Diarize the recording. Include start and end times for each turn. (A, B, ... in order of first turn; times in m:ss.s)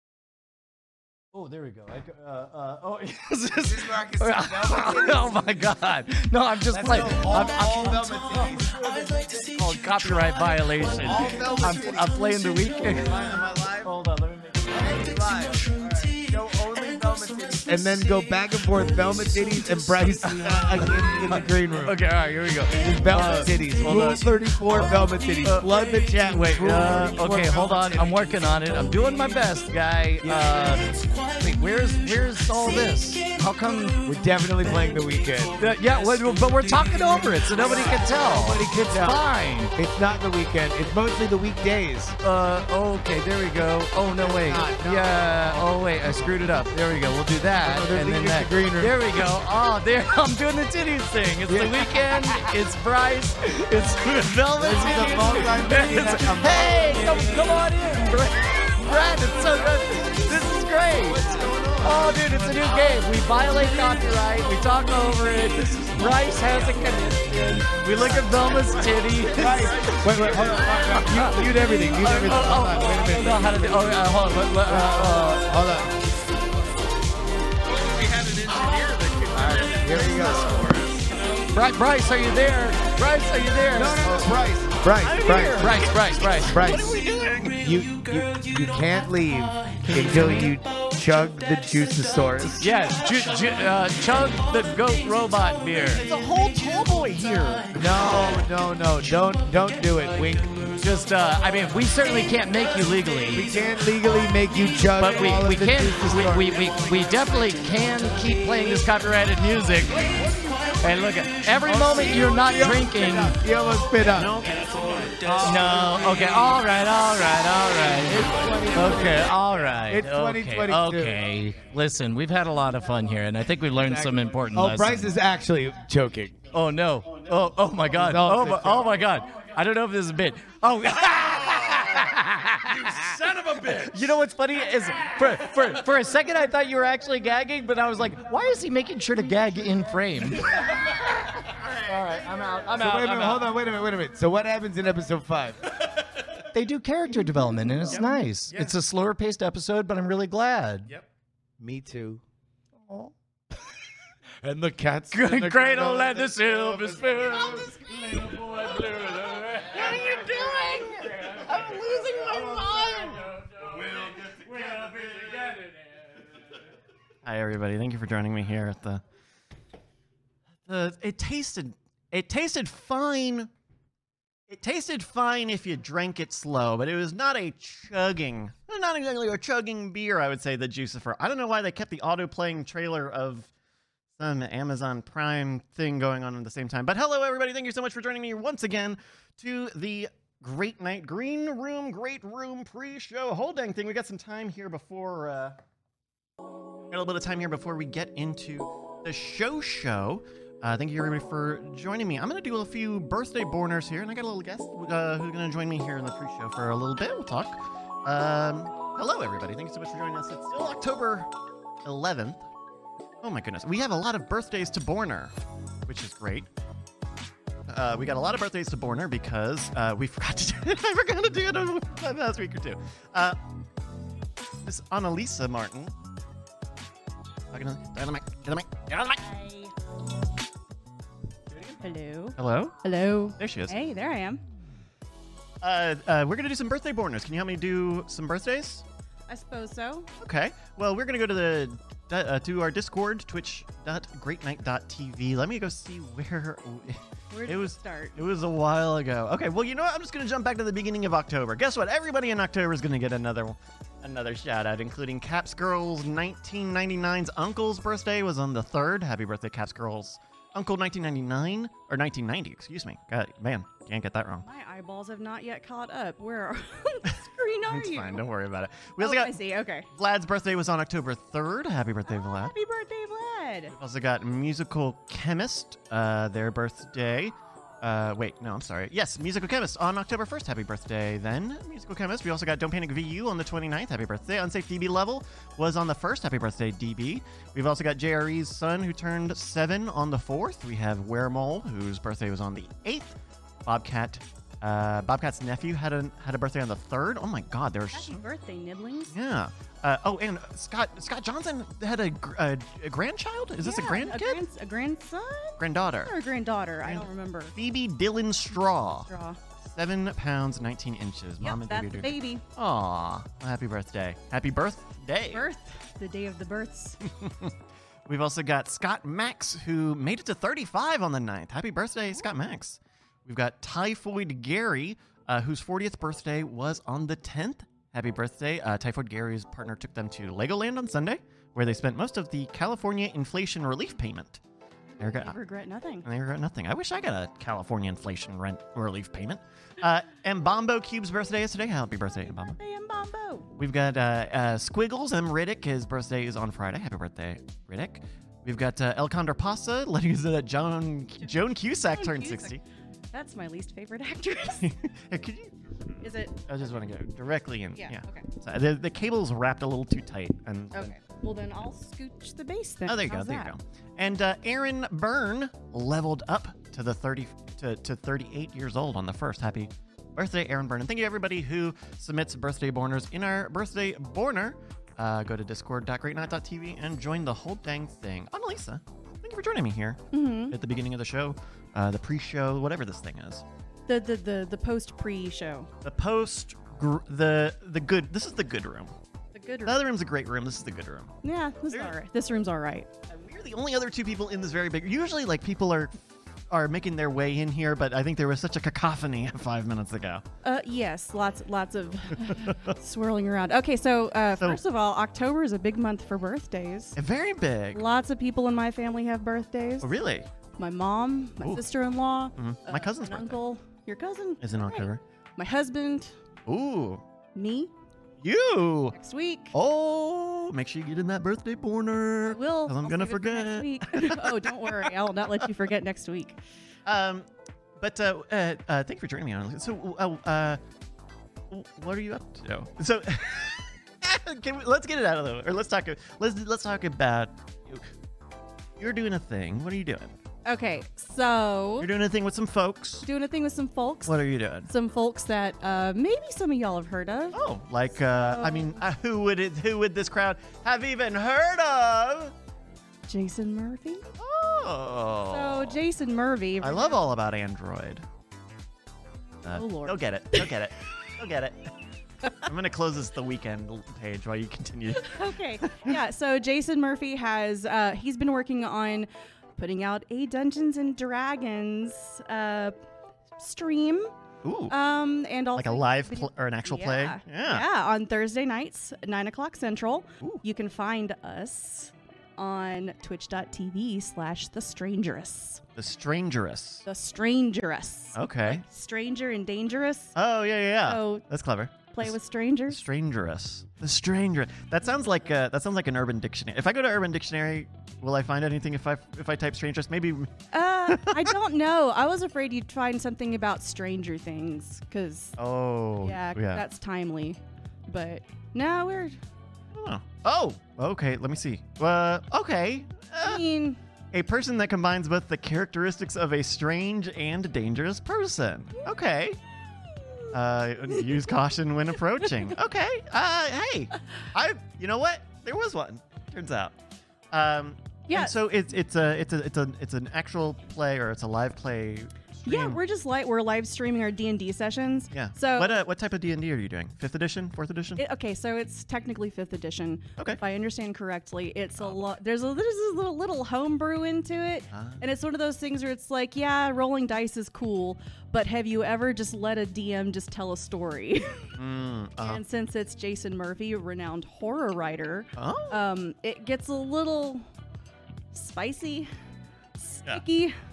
0:01.3-0:15.0 A
0:03.6-0:05.5 B
0:06.7-0:09.4 B
0:11.0-0:13.9 B
0:14.7-0:22.0 B
0:20.2-0:24.8 A
0:22.7-0:28.2 B
0:25.4-0:34.0 A
0:30.2-0:30.6 B
0:34.0-0:35.7 B
0:35.5-0:39.7 A
0:37.5-0:42.2 B
0:42.2-1:01.2 A
0:44.2-0:46.3 B
0:47.5-0:49.3 B
0:51.5-0:51.9 B
0:54.5-0:57.6 B
0:59.4-1:00.4 B
1:01.0-1:02.2 B
1:01.8-1:15.7 A
1:07.9-1:08.9 C
1:09.3-1:13.9 B
1:09.4-1:11.0 D
1:09.4-1:09.8 C
1:14.6-1:16.0 B
1:17.6-1:21.5 D
1:19.3-1:21.1 B
1:21.5-1:24.2 A
1:23.7-1:32.7 B
1:25.0-1:27.7 C
1:25.6-1:26.6 A
1:29.8-1:30.5 A
1:29.9-1:30.5 C
1:32.6-1:36.1 A
1:35.9-1:37.9 C
1:37.7-1:40.7 B
1:40.8-1:43.5 A
1:43.3-1:47.2 B
1:44.9-1:50.2 A
1:49.9-1:50.6 B
1:50.8-1:53.4 A
1:51.5-1:54.4 B
1:54.0-1:55.9 C
1:54.6-1:55.2 D
1:55.2-1:56.2 B
1:55.4-2:05.2 A
1:58.0-2:01.2 B
2:03.8-2:06.4 B
2:06.5-2:13.1 A
2:07.9-2:09.0 B
2:11.7-2:12.0 D
2:12.6-2:14.1 D
2:13.8-2:23.5 A
2:22.7-2:25.7 B
2:26.5-2:30.9 A
2:31.6-2:32.2 B
2:34.4-2:37.2 B
2:35.1-2:41.7 A
2:39.7-2:43.2 C
2:42.2-2:45.8 A
2:43.8-2:44.1 D
2:47.2-2:49.0 C
2:50.7-2:53.5 C
2:54.5-3:03.5 C
3:04.2-3:15.6 C
3:16.9-3:31.3 C
3:31.8-3:32.4 C
3:33.2-3:35.3 C
3:35.9-3:36.5 C
3:37.7-3:43.4 C
3:44.6-3:45.9 C
3:47.5-3:49.2 C
3:49.2-3:49.7 E
3:51.8-3:54.4 E
3:52.4-3:52.8 C
3:53.4-3:53.8 C
3:55.6-3:58.8 C
3:59.3-4:00.1 E
4:00.2-4:24.4 C
4:07.3-4:08.2 E
4:24.4-4:28.2 E
4:27.7-4:29.3 C
4:29.0-4:29.9 E
4:29.9-4:32.5 C
4:32.1-4:33.7 E
4:33.7-4:58.2 C
4:57.9-4:59.1 E
4:59.1-5:04.4 C
5:03.6-5:07.5 E
5:05.6-5:06.1 C
5:06.8-5:15.5 C
5:09.1-5:09.4 E
5:11.4-5:12.4 E
5:15.3-5:17.0 E
5:17.0-5:17.5 C
5:18.1-5:34.4 C
5:35.0-5:35.4 C
5:35.0-5:36.0 E
5:36.0-5:42.6 C
5:42.2-5:43.5 E
5:43.6-5:52.6 C
5:51.9-5:52.6 E
5:53.1-5:54.7 E
5:54.6-6:00.9 C
5:56.0-5:56.4 E
5:57.7-5:58.3 E
6:00.7-6:03.5 E
6:02.9-6:23.4 C
6:20.1-6:20.6 E
6:23.9-6:25.7 E
6:25.8-6:28.9 C
6:29.3-6:29.8 E
6:29.6-6:31.1 C
6:31.2-6:32.9 E
6:33.1-6:35.9 C
6:36.5-6:40.2 C
6:40.4-6:47.0 E
6:42.2-6:42.7 C
6:47.0-6:47.8 C
6:47.7-6:49.9 E
6:49.8-6:50.3 C
6:50.6-6:56.1 E
6:52.4-6:53.4 C
6:54.4-6:55.0 C
6:56.5-6:57.0 C
6:57.3-6:57.7 E
6:58.2-6:59.0 C
6:58.9-6:59.5 E
6:59.5-7:04.9 C
7:02.2-7:06.4 E
7:06.8-7:07.3 C
7:07.8-7:10.6 C
7:11.5-7:17.8 C
7:18.8-7:20.1 C
7:20.4-7:21.9 E
7:21.8-7:23.1 C
7:23.0-7:24.1 E
7:24.0-7:24.7 C
7:24.6-7:27.4 E
7:27.3-7:32.3 C
7:28.0-7:28.8 E
7:33.1-7:34.0 E
7:34.2-7:35.8 C
7:35.3-7:37.0 E
7:36.6-7:38.0 C
7:39.4-7:41.7 C
7:39.5-7:40.5 E
7:42.4-7:45.9 C
7:45.0-7:52.7 E
7:53.4-7:54.1 E
7:54.4-7:54.7 C
7:54.7-8:05.6 E
7:55.6-7:57.6 C
8:05.8-8:06.8 C
8:06.8-8:10.2 E
8:08.2-8:08.6 C
8:10.2-8:12.1 C
8:10.8-8:11.2 E
8:11.8-8:12.8 E
8:12.7-8:20.3 C
8:20.5-8:25.4 E
8:20.9-8:21.3 C
8:25.4-8:26.6 C
8:26.0-8:29.2 E
8:29.7-8:33.4 C
8:33.2-8:33.8 E
8:34.1-8:39.4 C
8:40.3-8:46.7 C
8:47.3-8:52.8 C
8:48.1-8:48.4 E
8:52.4-8:55.8 E
8:55.1-8:58.0 C
8:58.0-9:11.5 E
9:01.8-9:02.1 C
9:04.7-9:05.0 C
9:11.6-9:12.4 C
9:12.2-9:17.4 E
9:15.4-9:15.8 C
9:18.3-9:19.1 E
9:19.8-9:20.6 E